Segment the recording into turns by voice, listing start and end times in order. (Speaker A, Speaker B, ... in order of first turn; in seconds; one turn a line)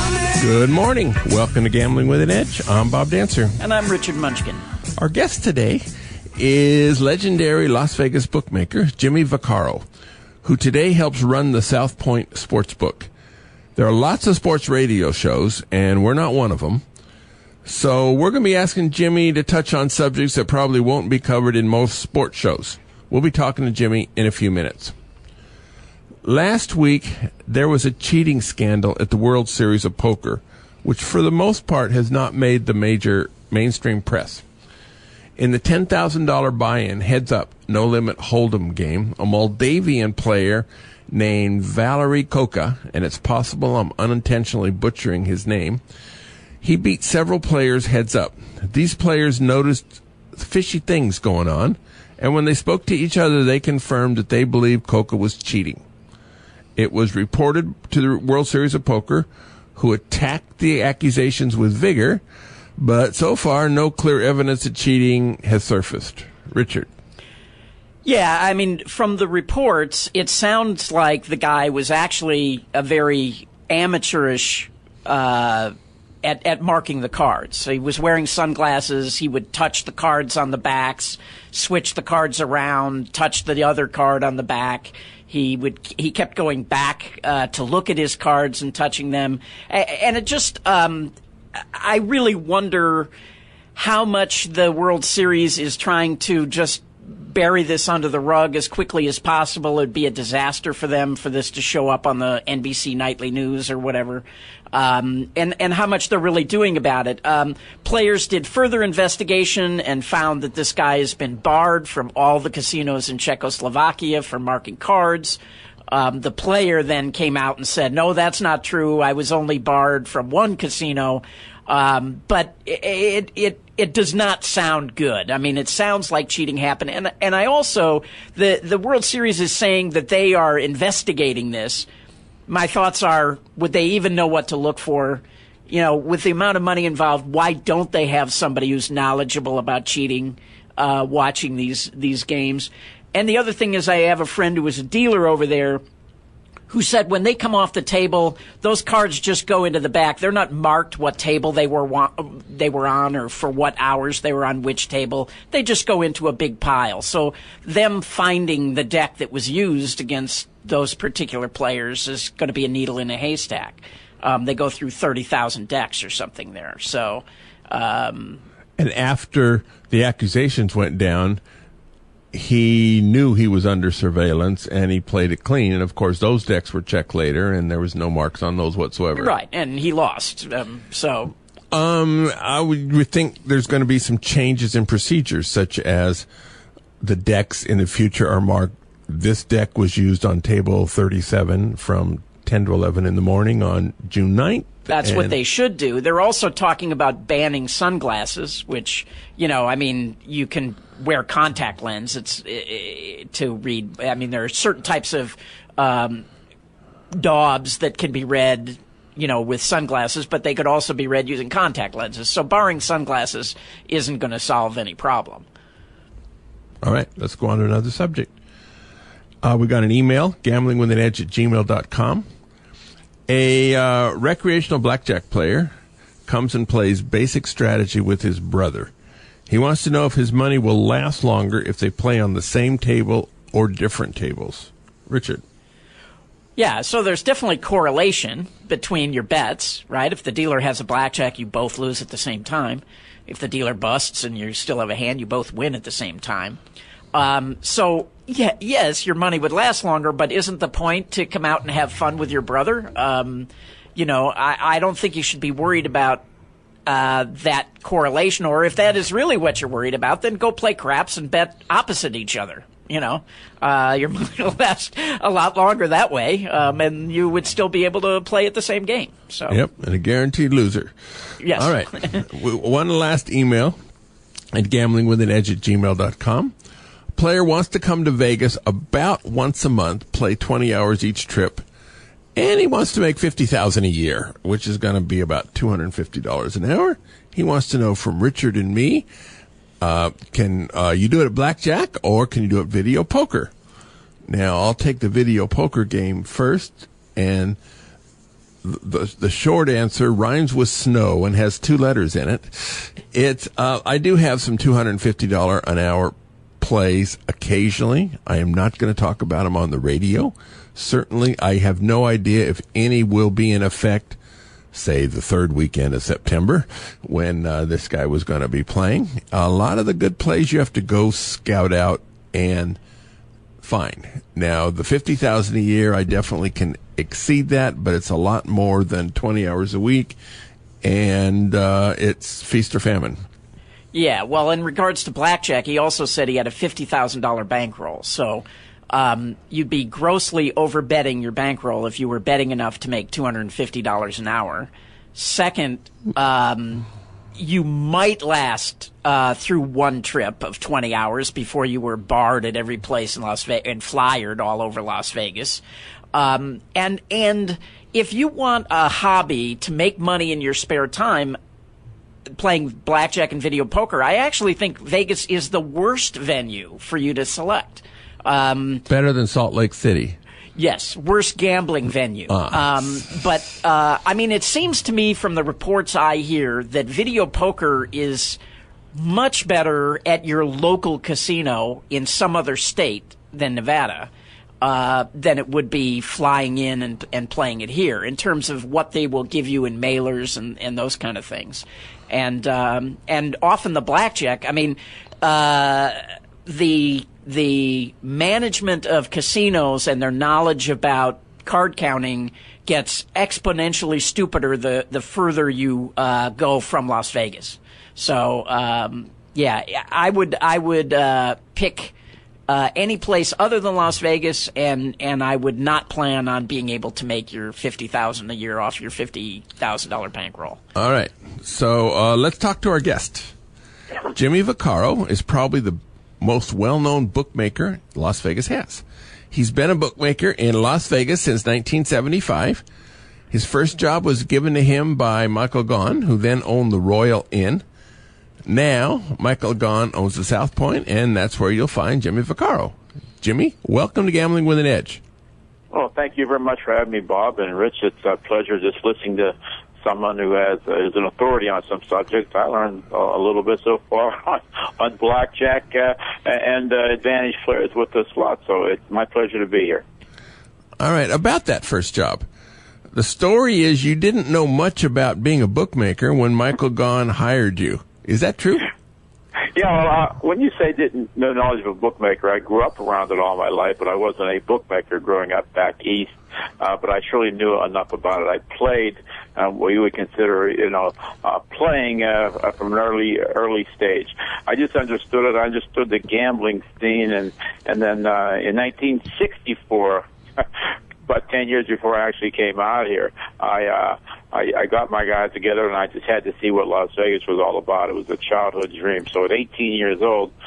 Speaker A: 0.3-3.6
Speaker B: 3.6-4.6
Speaker A: 5.0-5.8
Speaker A: 6.3-9.8
Speaker A: 10.4-13.1
Speaker A: 13.8-16.8
Speaker A: 17.6-24.9
Speaker A: 26.2-34.4
Speaker A: 35.4-45.8
Speaker A: 46.6-55.8
Speaker A: 56.8-62.2
Speaker A: 62.8-66.9
Speaker B: 68.0-93.1
Speaker B: 93.7-131.9
Speaker B: 132.5-145.8
Speaker B: 146.7-168.4
Speaker A: 168.8-171.4
Speaker A: 172.3-179.3
Speaker B: 179.2-181.3
Speaker A: 181.7-186.2
Speaker A: 187.0-195.3
Speaker B: 194.9-206.2
Speaker B: 207.1-215.4
Speaker A: 216.8-218.3
Speaker A: 219.4-222.2
Speaker A: 223.3-225.7
Speaker A: 226.2-228.9
Speaker A: 229.5-235.4
Speaker B: 236.6-246.6
Speaker B: 247.1-256.2
Speaker B: 256.9-269.6
Speaker A: 269.5-270.9
Speaker B: 271.4-272.2
Speaker A: 271.5-273.8
Speaker A: 274.5-276.5
Speaker A: 277.1-281.6
Speaker A: 282.3-289.1
Speaker A: 289.8-293.5
Speaker A: 294.2-297.6
Speaker A: 298.6-314.2
Speaker A: 314.7-322.8
Speaker A: 323.6-330.2
Speaker A: 330.8-333.2
Speaker B: 333.9-355.6
Speaker B: 356.1-361.4
Speaker B: 362.4-368.9
Speaker A: 368.9-370.2
Speaker B: 370.6-378.4
Speaker A: 372.3-372.6
Speaker B: 378.9-411.9
Speaker B: 412.5-420.6
Speaker A: 420.7-423.3
Speaker A: 424.1-432.6
Speaker A: 433.3-437.6
Speaker A: 438.4-445.0
Speaker C: 445.7-459.8
Speaker A: 460.8-462.2
Speaker A: 462.9-468.7
Speaker C: 469.5-500.3